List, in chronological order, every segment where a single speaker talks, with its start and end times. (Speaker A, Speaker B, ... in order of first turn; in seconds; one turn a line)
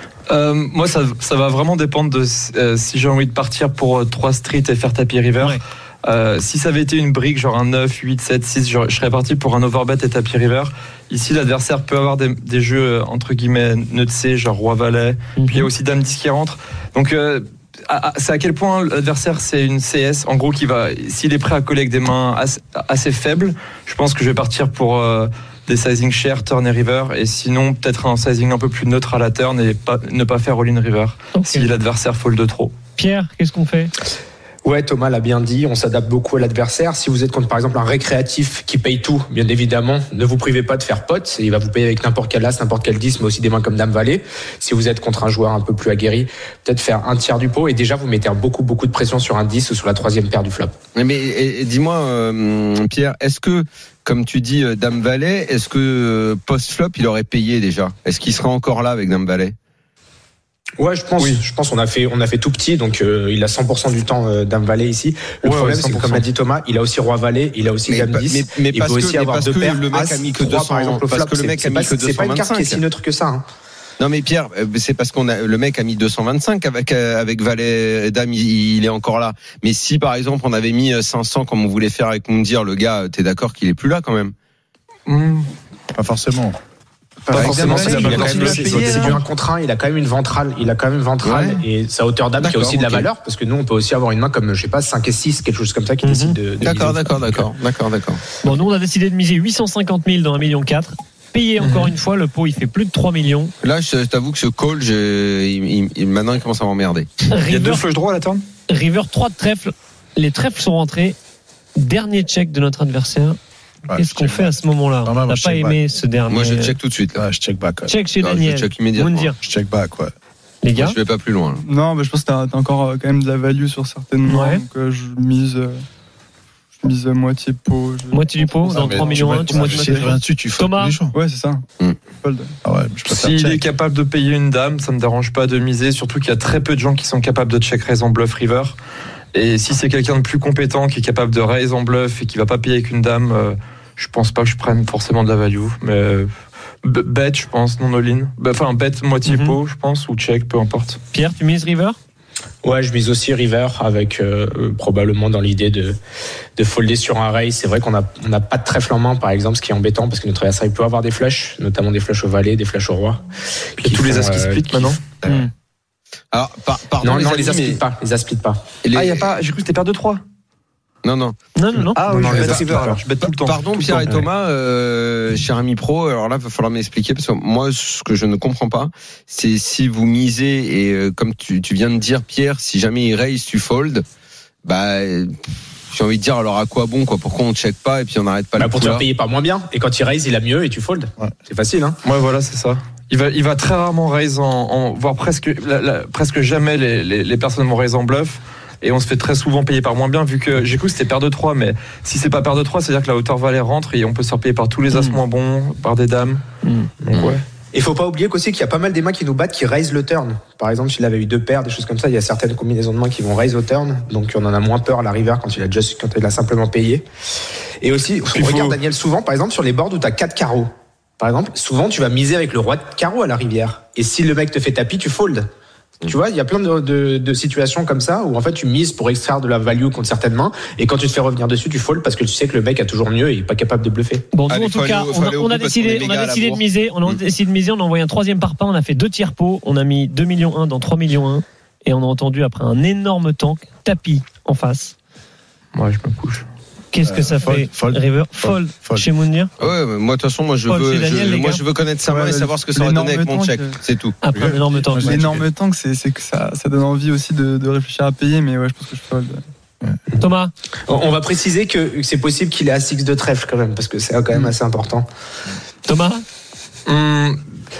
Speaker A: 0.3-32.7
Speaker B: 15.4-15.7
Speaker B: 31.4-31.7
Speaker B: 33.0-33.9
Speaker C: 34.6-50.7
Speaker D: 51.0-59.5
Speaker C: 60.8-73.4
Speaker A: 61.2-61.4
Speaker A: 65.4-66.3
Speaker D: 67.9-72.8
Speaker D: 74.0-84.3
Speaker A: 85.1-85.5
Speaker E: 85.9-86.6
Speaker C: 87.3-97.5
Speaker A: 87.3-89.2
Speaker D: 87.3-89.2
Speaker E: 87.4-88.2
Speaker D: 91.2-91.6
Speaker D: 92.4-93.1
Speaker B: 96.0-96.4
Speaker D: 96.6-98.2
Speaker B: 98.4-103.5
Speaker A: 101.6-101.9
Speaker D: 103.6-107.1
Speaker B: 107.3-107.8
Speaker A: 107.5-108.4
Speaker B: 108.7-111.2
Speaker B: 111.8-113.4
Speaker E: 113.9-115.8
Speaker B: 113.9-116.8
Speaker D: 116.3-117.2
Speaker E: 117.2-118.0
Speaker B: 117.9-119.4
Speaker D: 118.2-119.3
Speaker E: 119.4-120.1
Speaker B: 120.6-121.0
Speaker D: 120.8-121.6
Speaker F: 121.6-125.8
Speaker B: 124.2-124.7
Speaker F: 126.8-130.2
Speaker B: 128.1-131.0
Speaker E: 128.7-131.1
Speaker F: 131.1-132.6
Speaker D: 131.8-132.1
Speaker E: 132.6-133.6
Speaker A: 133.1-138.8
Speaker A: 139.3-146.3
Speaker A: 146.8-151.0
Speaker B: 149.3-149.6
Speaker B: 151.1-152.0
Speaker C: 152.6-156.0
Speaker C: 156.6-163.2
Speaker C: 163.8-165.5
Speaker A: 163.8-165.0
Speaker D: 166.3-167.8
Speaker C: 167.0-168.6
Speaker D: 168.8-169.3
Speaker A: 168.9-170.2
Speaker D: 171.0-171.4
Speaker B: 171.6-172.6
Speaker A: 172.0-174.1
Speaker C: 172.0-173.0
Speaker D: 173.4-184.1
Speaker D: 184.7-185.4
Speaker D: 185.9-189.1
Speaker C: 188.6-192.0
Speaker A: 192.0-206.4
Speaker B: 204.9-205.2
Speaker B: 206.6-206.9
Speaker A: 207.0-207.4
Speaker D: 207.1-207.4
Speaker C: 207.7-217.0
Speaker C: 217.8-220.7
Speaker A: 218.3-218.8
Speaker C: 221.2-225.5
Speaker C: 226.1-234.3
Speaker B: 234.3-244.9
Speaker D: 234.5-237.2
Speaker A: 245.7-246.5
Speaker B: 246.9-249.5
Speaker E: 247.1-249.1
Speaker D: 249.6-254.2
Speaker B: 250.7-251.7
Speaker F: 252.0-253.8
Speaker B: 254.2-255.4
Speaker E: 254.3-255.4
Speaker F: 254.8-259.4
Speaker B: 260.1-260.5
Speaker C: 260.9-265.1
Speaker B: 265.9-266.2
Speaker A: 266.9-267.4